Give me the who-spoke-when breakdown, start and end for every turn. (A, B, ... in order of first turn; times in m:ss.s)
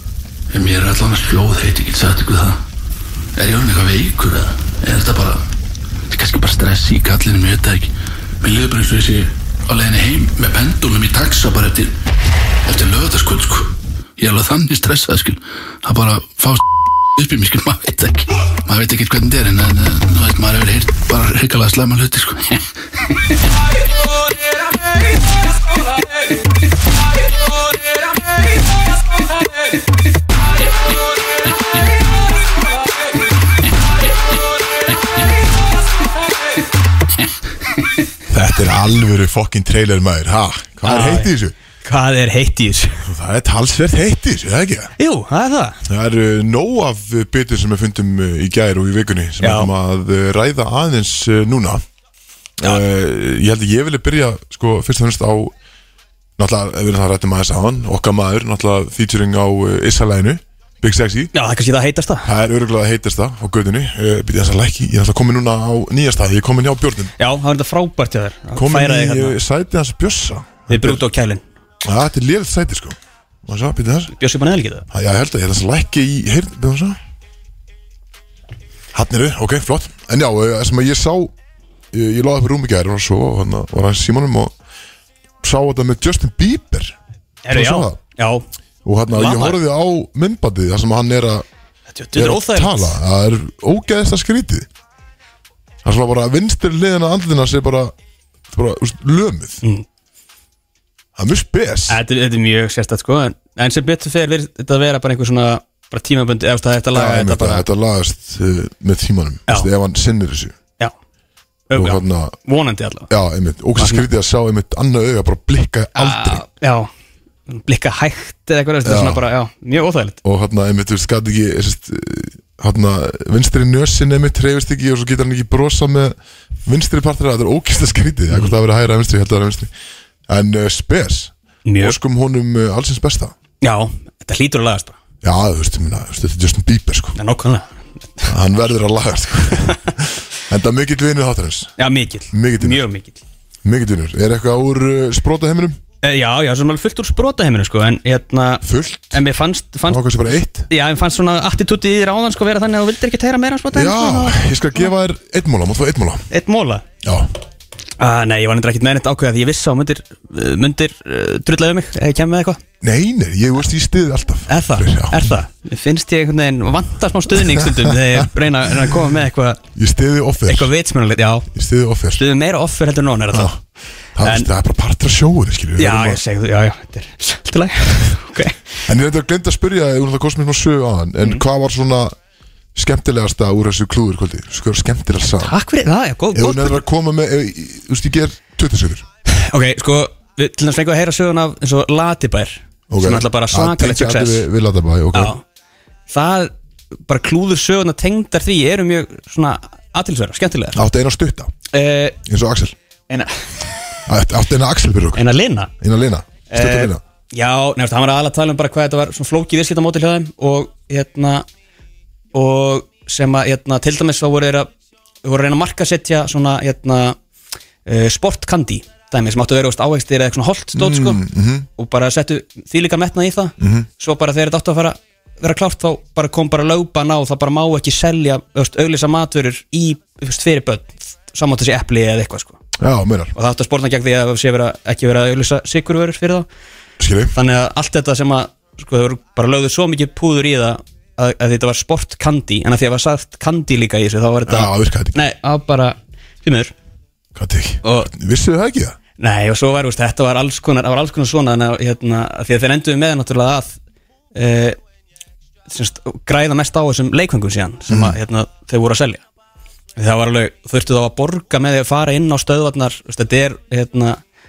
0:00.5-0:02.6 A
0:03.4-0:05.4 A
0:06.1-0:07.9 A
0:08.4-0:11.9 A
0:12.7-0:16.6 A
0:17.2-0:22.6 A
0:38.3-0:41.5 B
0:40.8-0:41.3 C
0:41.8-0:43.1 C
0:43.0-0:44.9 B
0:45.0-0:45.8 C
0:45.8-0:51.8 B
0:49.4-0:49.7 C
0:52.6-0:55.5 B
0:56.4-1:01.3 B
1:01.3-1:02.2 C
1:02.2-1:07.1 B
1:07.2-1:09.4 C
1:08.5-1:11.0 B
1:10.7-1:11.4 C
1:11.8-1:14.1 B
1:14.1-1:14.8 C
1:14.9-1:17.0 B
1:18.9-1:21.3 B
1:21.9-1:24.5 B
1:25.4-1:27.0 B
1:27.4-1:28.4 C
1:27.5-1:28.0 B
1:28.8-1:31.4 B
1:29.1-1:29.6 C
1:31.9-1:33.0 C
1:32.1-1:34.7 B
1:35.8-1:37.9 B
1:38.5-1:39.6 B
1:41.2-1:42.0 B
1:41.9-1:47.6 C
1:46.9-1:50.5 B
1:51.7-1:53.1 C
1:51.7-1:52.4 B
1:53.1-1:56.4 B
1:53.8-1:54.0 C
1:55.9-1:56.9 C
1:57.5-2:00.2 C
1:58.8-1:59.2 B
2:00.2-2:09.7 B
2:10.3-2:13.3 B
2:11.6-2:12.0 C
2:13.6-2:15.0 C
2:15.2-2:17.2 B
2:17.2-2:18.3 C
2:18.3-2:21.7 B
2:21.8-2:23.2 C
2:22.3-2:22.8 B
2:23.6-2:25.8 B
2:26.0-2:30.0 C
2:28.6-2:29.2 B
2:29.8-2:30.7 B
2:30.7-2:34.4 C
2:33.7-2:36.2 B
2:36.3-2:36.8 C
2:37.0-2:37.3 B
2:38.0-2:42.6 C
2:42.8-2:45.3 B
2:44.5-2:49.6 C
2:47.5-2:48.3 B
2:49.7-2:50.7 B
2:50.5-2:51.5 C
2:51.5-2:52.2 B
2:52.1-2:53.6 C
2:53.3-2:53.6 B
2:54.1-2:56.2 B
2:54.2-2:54.5 C
2:55.8-2:58.6 C
2:58.8-3:02.1 B
3:02.7-3:05.5 B
3:05.4-3:06.8 C
3:06.3-3:09.0 B
3:09.3-3:14.5 C
3:12.9-3:15.4 B
3:15.1-3:15.4 C
3:16.1-3:16.5 C
3:17.1-3:20.8 C
3:20.7-3:21.5 B
3:21.7-3:22.1 C
3:22.2-3:22.8 B
3:23.1-3:23.7 C
3:24.1-3:25.2 B
3:25.1-3:25.7 C
3:25.8-3:27.0 B
3:26.5-3:31.4 C
3:32.3-3:34.7 C
3:35.2-3:37.2 C
3:37.8-3:41.2 C
3:40.7-3:41.7 B
3:41.8-3:52.6 C
3:43.6-3:43.9 B
3:52.8-3:53.3 B
3:53.3-3:56.5 C
3:57.0-3:57.3 B
3:57.3-4:06.7 C
4:04.4-4:05.2 B
4:07.3-4:09.0 B
4:07.8-4:08.1 C
4:09.2-4:13.8 C
4:14.3-4:14.8 C
4:15.7-4:19.2 C
4:17.9-4:18.2 B
4:20.0-4:24.2 C